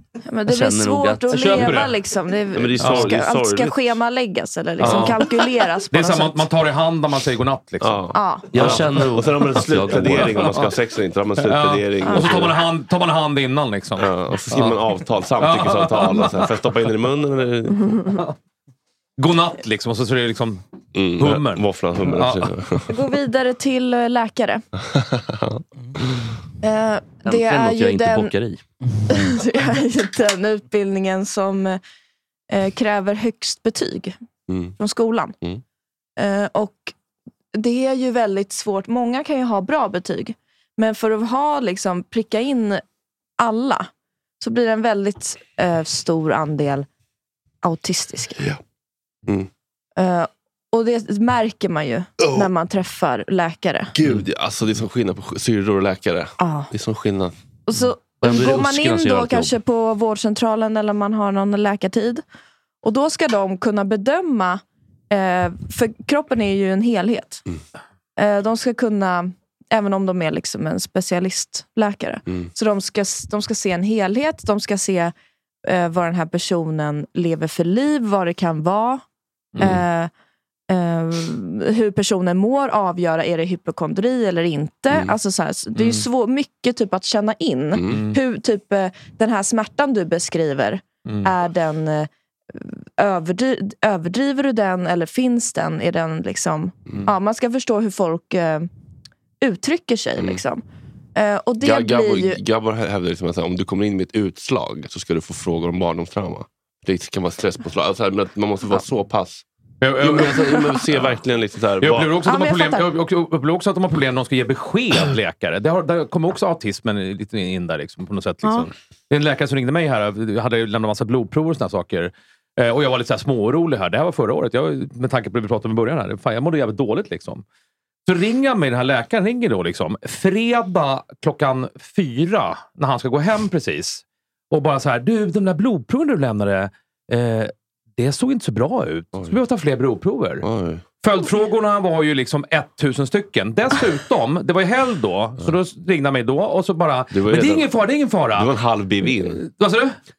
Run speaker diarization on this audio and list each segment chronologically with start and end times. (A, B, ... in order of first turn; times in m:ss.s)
0:00.2-0:06.5 A
0:00.5-0:01.7 B
0:01.3-0:02.0 C
0:02.5-0:04.0 D
0:02.8-0:03.2 C
0:04.8-0:05.2 C
0:04.8-0:05.1 D
0:05.9-0:09.0 C
0:07.8-0:12.5 D
0:08.1-0:08.5 A
0:08.5-0:10.4 B
0:10.0-0:10.7 C
0:11.4-0:14.8 C
0:12.0-0:12.4 A
0:14.0-0:18.0 D
0:15.4-0:16.5 C
0:19.2-0:20.6 C
0:20.9-0:22.9 D
0:21.2-0:22.5 C
0:22.9-0:24.6 A
0:24.8-0:26.3 D
0:26.6-0:28.3 A
0:27.2-0:28.6 B
0:29.1-0:31.8 A
0:32.5-0:34.2 A
0:34.5-0:34.8 D
0:34.8-0:35.4 A
0:36.2-0:36.9 A
0:37.5-0:42.8 A
0:43.4-0:43.9 A
0:44.4-0:46.9 A
0:47.6-0:48.4 A
0:50.0-0:53.9 A
0:52.2-0:52.5 D
0:54.0-0:57.3 D
0:56.4-0:56.7 A
0:57.7-1:02.2 A
0:58.2-0:59.5 B
1:02.8-1:07.4 A
1:08.2-1:15.1 A
1:12.3-1:12.5 D
1:15.6-1:19.0 A
1:19.5-1:19.8 C
1:19.6-1:20.1 A
1:20.7-1:38.7 A
1:24.9-1:25.2 D
1:25.7-1:26.1 C
1:27.7-1:28.1 D
1:27.9-1:28.2 C
1:31.0-1:31.3 C
1:36.8-1:37.1 D
1:39.4-1:40.6 A
1:40.2-1:40.4 D
1:41.2-1:42.4 A
1:41.6-1:49.4 D
1:49.8-1:51.2 C
1:50.0-1:52.2 D
1:51.8-2:07.4 C
1:52.2-1:52.9 A
2:08.0-2:20.4 C
2:20.4-2:20.8 D
2:21.0-2:28.5 C
2:27.1-2:27.7 D
2:28.3-2:29.4 D
2:29.1-2:29.9 C